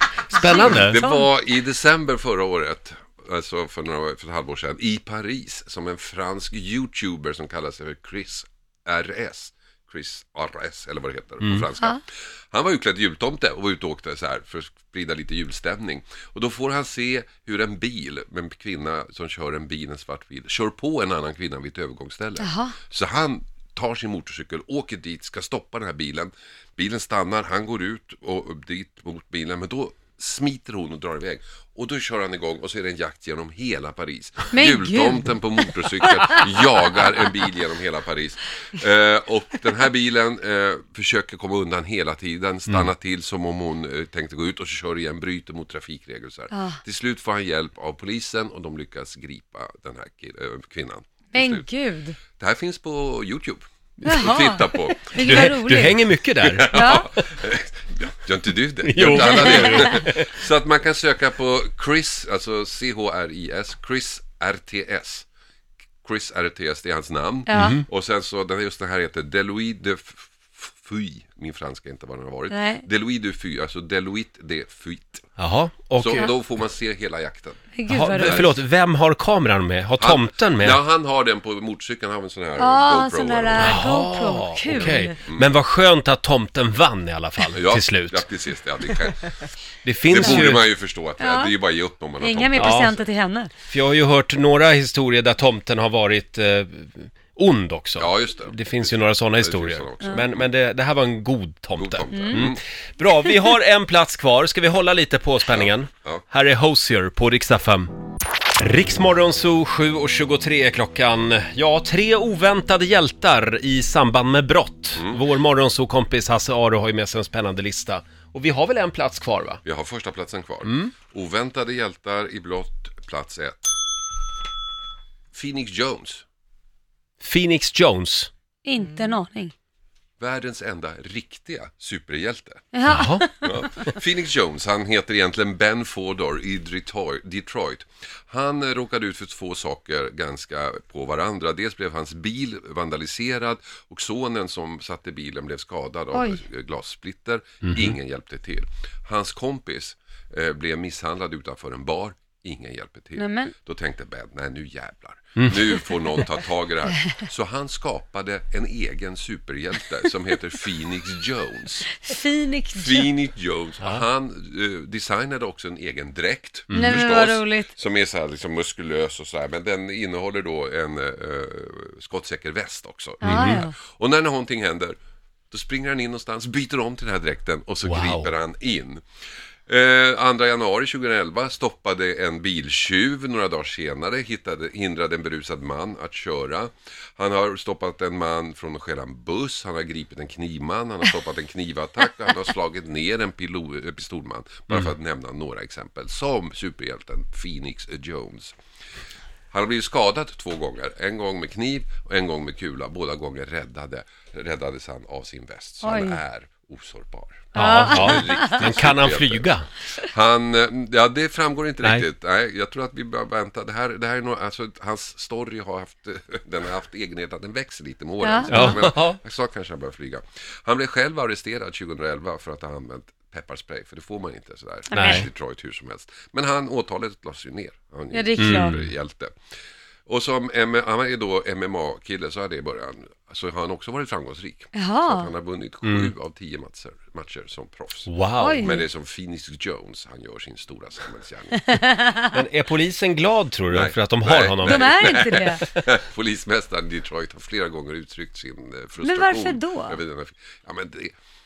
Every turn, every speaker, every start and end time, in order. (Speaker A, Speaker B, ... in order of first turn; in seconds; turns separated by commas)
Speaker A: 0.3-1.0, Speaker B: 0.3-1.3, Speaker C: 0.4-51.6, Speaker B: 22.4-22.7, Speaker B: 34.5-36.5, Speaker B: 46.5-46.8, Speaker B: 51.3-52.2, Speaker C: 52.4-65.2, Speaker B: 54.0-56.0, Speaker A: 55.2-57.0, Speaker B: 56.7-57.1, Speaker A: 58.8-60.3, Speaker B: 59.1-59.9, Speaker C: 66.0-75.2, Speaker B: 67.5-67.8, Speaker A: 67.5-67.8, Speaker B: 72.5-72.8, Speaker A: 75.4-76.3, Speaker C: 76.0-78.5, Speaker B: 77.7-78.5, Speaker A: 77.9-80.8, Speaker C: 80.0-83.8, Speaker B: 82.6-85.2, Speaker A: 83.6-88.2, Speaker C: 84.7-85.5, Speaker C: 87.5-89.3, Speaker A: 89.8-90.6, Speaker C: 90.1-93.0, Speaker B: 91.2-91.5, Speaker B: 92.2-93.5, Speaker A: 92.6-92.9, Speaker A: 93.7-107.9, Speaker C: 98.0-100.5, Speaker C: 101.8-102.6, Speaker B: 102.1-102.5, Speaker C: 105.5-106.2, Speaker A: 108.6-119.6, Speaker C: 115.0-115.2, Speaker C: 119.6-123.7, Speaker A: 120.6-120.9, Speaker C: 125.3-126.2, Speaker A: 127.2-128.3, Speaker B: 128.6-129.5, Speaker C: 130.2-132.6, Speaker B: 132.7-133.5, Speaker A: 132.9-133.2, Speaker C: 133.4-161.9, Speaker B: 146.1-146.4, Speaker A: 147.6-147.9, Speaker B: 153.2-153.5, Speaker B: 161.9-163.1, Speaker C: 162.7-175.0, Speaker A: 166.7-167.0, Speaker B: 166.7-167.7, Speaker A: 173.2-173.6, Speaker B: 173.2-173.7, Speaker C: 175.5-179.0, Speaker A: 177.8-178.3, Speaker C: 179.7-198.5, Speaker C: 199.5-229.3, Speaker B: 205.8-206.2, Speaker A: 207.5-209.7, Speaker B: 207.6-208.4, Speaker B: 218.2-218.8, Speaker A: 218.5-219.2, Speaker B: 224.9-225.2, Speaker A: 224.9-225.2, Speaker B: 228.1-228.8, Speaker A: 228.4-228.9, Speaker C: 230.1-241.6, Speaker B: 234.7-235.3, Speaker A: 235.8-236.1, Speaker A: 238.1-238.8, Speaker B: 238.4-238.8, Speaker B: 241.6-242.2, Speaker A: 242.3-245.1, Speaker C: 243.7-251.1, Speaker B: 244.6-245.6, Speaker B: 249.0-250.0